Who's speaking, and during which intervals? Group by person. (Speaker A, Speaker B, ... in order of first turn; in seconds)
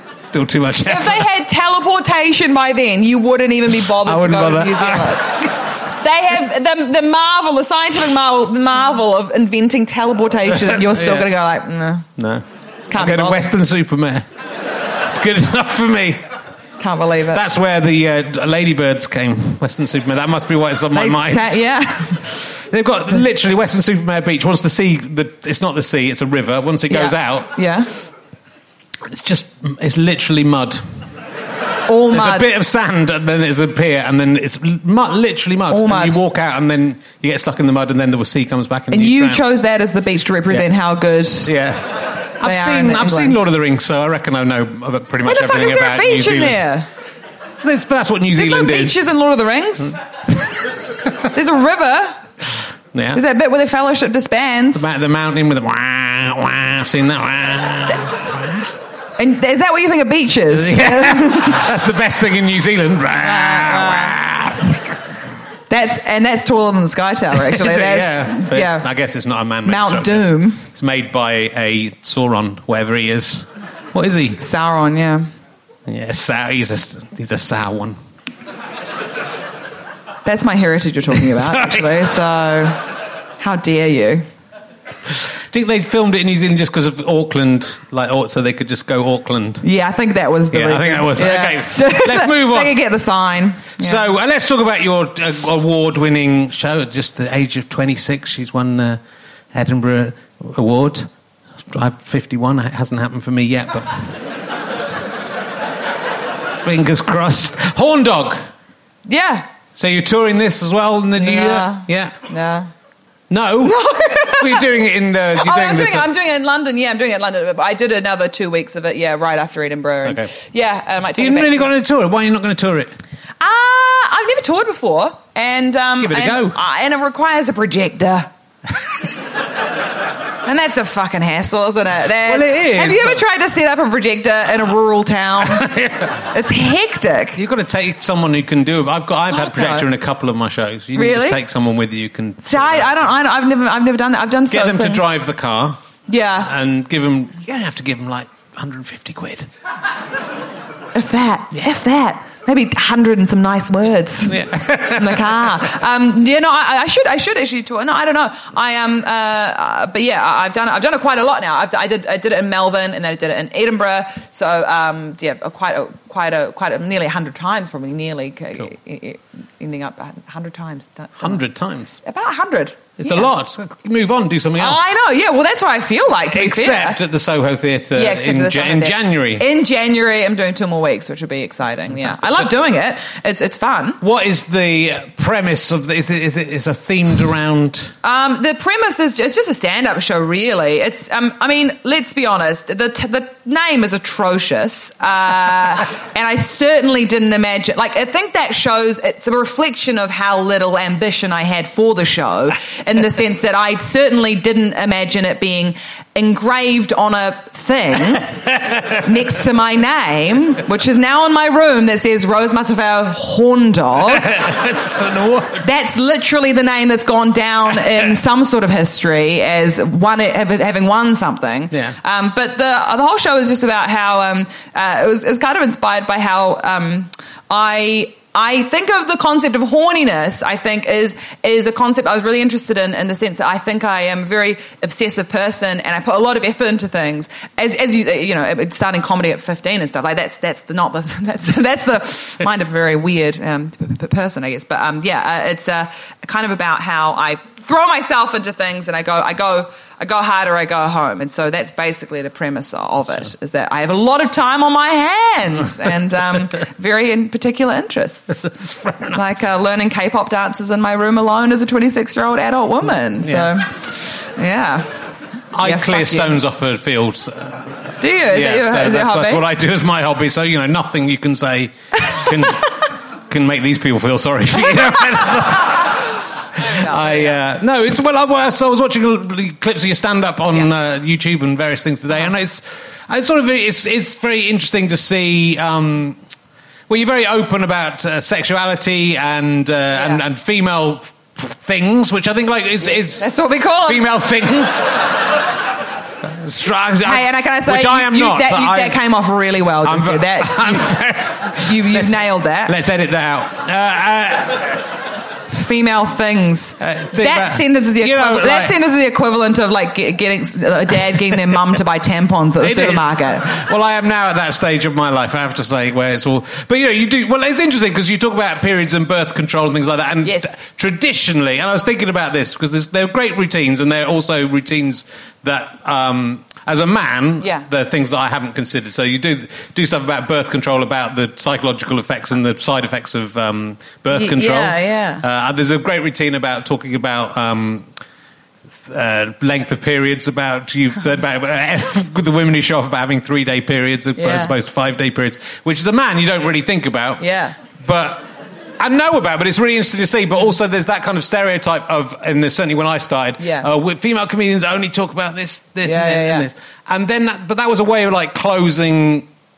Speaker A: 0.2-1.3, 4.0-5.5, 10.6-11.3, 12.2-14.2, 15.1-16.2, 17.3-21.6, 22.3-27.6, 29.1-31.1, 32.1-39.4, 41.5-46.6, 47.6-49.0, 52.9-53.2, 54.8-58.7, 60.5-65.0, 67.3-74.4, 75.9-78.0, 81.2-82.0, 85.5-89.7, 90.5-92.8, 93.8-99.0, 99.5-101.1, 101.7-104.2, 106.6-108.4, 109.8-112.2, 113.3-116.1, 120.0-120.3, 121.2-122.9, 126.0-126.6, 132.2-133.2, 135.4-136.3, 137.4-143.1, 144.5-145.8, 146.4-149.5, 154.3-155.5, 171.2-172.0, 173.0-174.8, 176.3-179.4, 181.9-182.5, 184.0-187.9, 208.6-208.9, 214.1-215.7, 221.7-222.0, 258.4-259.2, 263.2-263.5, 265.5-286.2, 286.9-293.3, 293.9-295.1, 296.2-299.0, 299.8-304.8, 306.8-308.8, 312.6-337.9, 338.7-347.2, 347.8-348.3, 348.8-359.3
Speaker B: 0.9-12.1, 12.9-13.5, 16.8-17.4, 20.9-22.3, 26.9-27.9, 31.9-32.5, 35.7-36.2, 38.9-41.5, 42.4-43.4, 45.2-46.9, 48.4-50.0, 51.3-52.2, 53.1-54.9, 59.2-61.7, 63.2-64.2, 65.7-68.9, 69.7-70.7, 74.4-75.3, 80.2-82.9, 83.4-84.3, 89.6-94.1, 109.1-109.5, 111.2-112.7, 113.6-114.7, 115.3-121.7, 123.4-128.3, 130.4-135.7, 136.3-137.4, 139.3-139.9, 141.0-141.4, 142.4-145.0, 146.1-146.5, 150.9-171.4, 172.0-173.3, 174.6-177.0, 177.9-184.0, 188.0-214.3, 215.6-258.5, 259.1-264.9, 265.6-266.4, 268.0-269.4, 274.7-275.8, 276.6-277.4, 289.9-290.2, 292.8-294.0, 297.0-300.9, 301.6-302.7, 305.5-313.5, 320.2-320.6, 327.4-327.6, 334.1-335.2, 344.2-344.5, 347.2-347.6, 353.4-353.7, 355.8-356.5